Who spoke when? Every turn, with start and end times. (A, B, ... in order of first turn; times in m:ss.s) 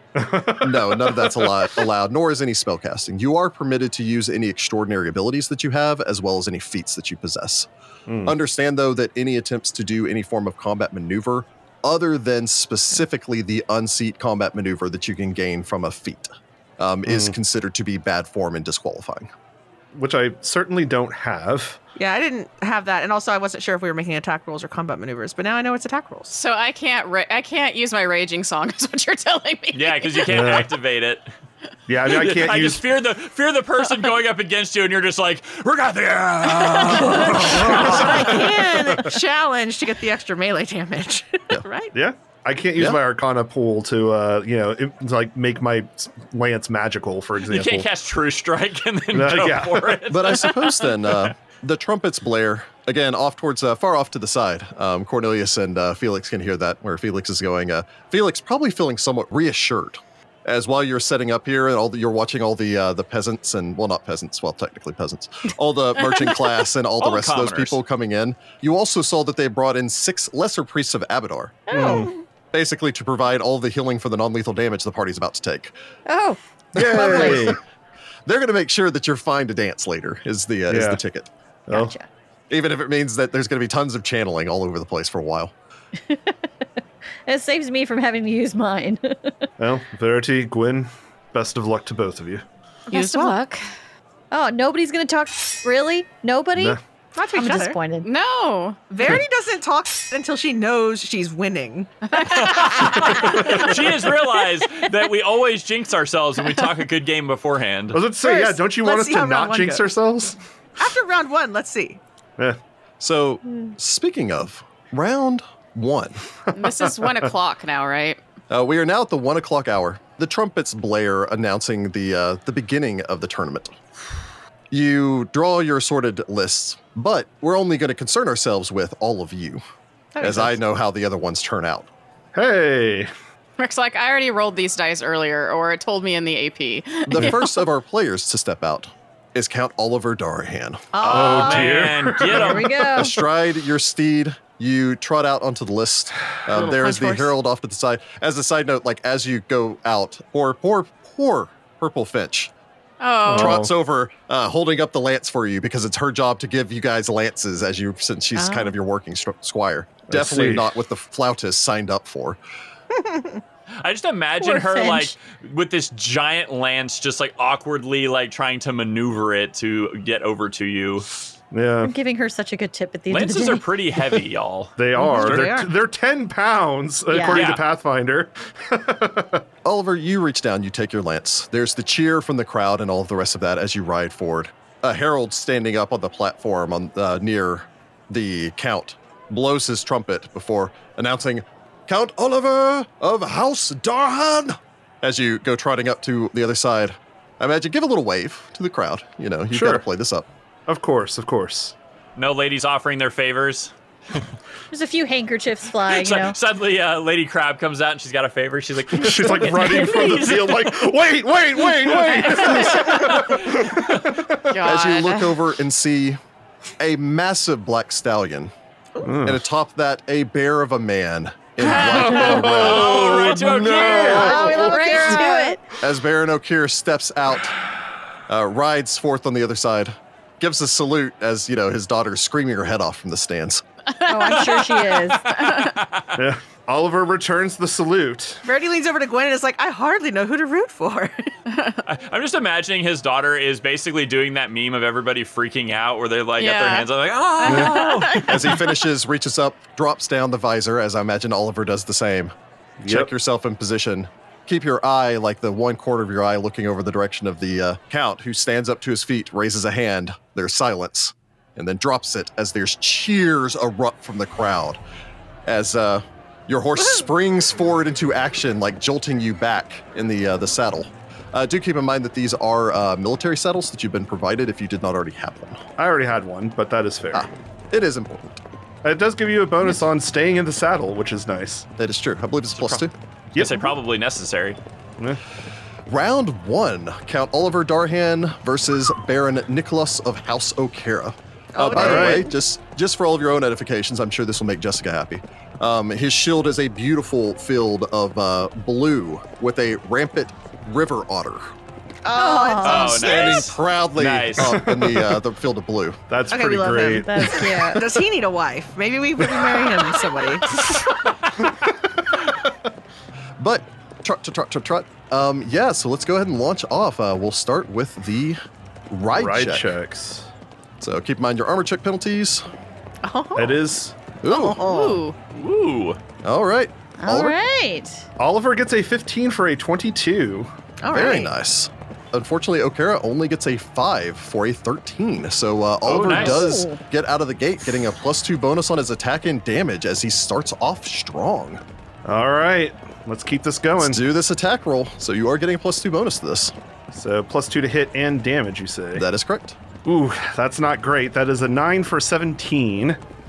0:00.2-0:01.8 A
0:00.6-0:07.7 B
0:08.1-0:08.4 A
0:08.2-0:19.3 B
0:17.1-0:17.3 A
0:19.9-0:21.8 A
0:22.0-0:26.3 C
0:26.3-0:30.3 D
0:29.7-0:31.3 E
0:30.3-0:30.7 A
0:31.9-0:32.8 A
0:32.0-0:38.4 E
0:36.5-0:39.1 A
0:37.2-0:41.9 C
0:41.9-0:47.9 A
0:47.5-0:51.3 E
0:49.1-0:50.1 A
0:50.1-1:11.8 B
1:07.0-1:07.8 E
1:11.7-1:12.1 F
1:11.7-1:12.1 A
1:12.5-1:15.7 B
1:16.1-1:17.6 F
1:16.7-1:17.6 B
1:16.7-1:17.6 A
1:18.2-1:21.3 B
1:20.7-1:21.0 A
1:21.7-1:22.0 F
1:22.5-1:25.5 B
1:26.1-1:26.4 F
1:27.3-1:29.5 F
1:29.6-1:32.4 A
1:32.9-1:33.6 D
1:32.9-1:33.3 C
1:34.3-1:36.8 F
1:37.1-1:37.8 C
1:37.3-1:38.1 F
1:38.0-1:38.9 D
1:38.9-1:41.9 C
1:42.1-1:43.7 D
1:42.2-1:48.0 E
1:42.8-1:43.5 C
1:47.9-1:50.4 A
1:48.2-1:49.9 C
1:50.8-1:52.0 C
1:53.0-1:56.2 B
1:56.5-1:58.2 D
1:58.5-2:03.8 B
2:04.7-2:09.6 B
2:10.1-2:10.6 C
2:10.2-2:11.9 B
2:12.3-2:13.1 A
2:13.6-2:17.5 D
2:17.1-2:20.9 B
2:20.9-2:21.9 C
2:21.0-2:22.9 E
2:21.1-2:22.9 A
2:22.2-2:23.2 F
2:22.9-2:32.5 B
2:26.5-2:27.3 C
2:33.0-2:33.6 D
2:33.2-2:33.7 A
2:33.3-2:42.4 B
2:38.4-2:38.7 C
2:40.1-2:40.7 A
2:42.9-2:43.4 C
2:43.8-2:51.1 E
2:44.4-2:45.1 F
2:51.5-2:51.9 A
2:51.8-2:53.6 F
2:53.1-2:54.7 E
2:54.8-2:59.4 A
2:54.9-2:55.7 C
2:57.1-2:57.4 F
2:57.3-2:57.6 E
2:59.6-3:20.3 B
3:19.5-3:19.8 A
3:20.7-3:21.7 A
3:22.2-3:24.2 E
3:24.7-3:26.4 F
3:25.9-3:30.8 E
3:28.9-3:34.4 A
3:31.8-3:34.0 E
3:32.4-3:33.0 D
3:34.5-3:35.4 D
3:34.6-3:36.2 B
3:36.8-3:38.5 B
3:39.0-3:39.4 A
3:39.2-3:44.4 B
3:41.8-3:44.8 E
3:42.0-3:42.4 D
3:42.1-3:44.0 A
3:43.2-3:45.5 C
3:43.8-3:45.6 F
3:44.1-3:45.2 D
3:45.8-3:47.6 B
3:48.3-3:53.6 B
3:54.0-3:55.7 D
3:54.0-3:55.3 F
3:55.2-3:56.1 E
3:56.2-3:58.4 A
3:58.4-4:01.3 C
4:01.5-4:01.8 D
4:01.8-4:08.6 E
4:06.4-4:06.9 D
4:07.4-4:08.5 D
4:07.5-4:07.8 A
4:08.2-4:12.3 B
4:12.8-4:13.1 A
4:12.9-4:24.8 B
4:25.4-4:35.6 B
4:35.8-4:37.3 A
4:37.1-4:38.4 B
4:38.8-4:41.7 A
4:41.8-4:42.9 B
4:42.6-4:44.6 E
4:43.3-4:43.7 A
4:45.9-5:01.5 B
4:51.5-4:52.3 C
4:51.7-4:52.3 A
5:02.0-5:03.4 C
5:02.1-5:03.0 F
5:02.6-5:04.6 E
5:02.7-5:06.0 B
5:04.4-5:05.2 A
5:06.1-5:07.8 A
5:06.3-5:10.7 C
5:06.8-5:07.9 F
5:09.2-5:09.9 A
5:11.5-5:12.3 A
5:13.4-5:19.7 B
5:19.1-5:20.3 A
5:20.8-5:22.4 B
5:23.0-5:23.6 C
5:23.3-5:24.0 A
5:24.2-5:24.6 B
5:24.3-5:25.0 C
5:24.4-5:25.2 D
5:25.3-5:26.0 E
5:26.2-5:27.4 B
5:27.0-5:28.0 F
5:28.2-5:30.5 A
5:30.8-5:31.3 C
5:30.9-5:41.6 B
5:35.8-5:36.5 E
5:36.1-5:36.8 F
5:42.0-5:44.0 A
5:43.8-5:46.5 B
5:46.9-5:49.0 A
5:48.9-5:49.6 B
5:49.8-5:53.0 A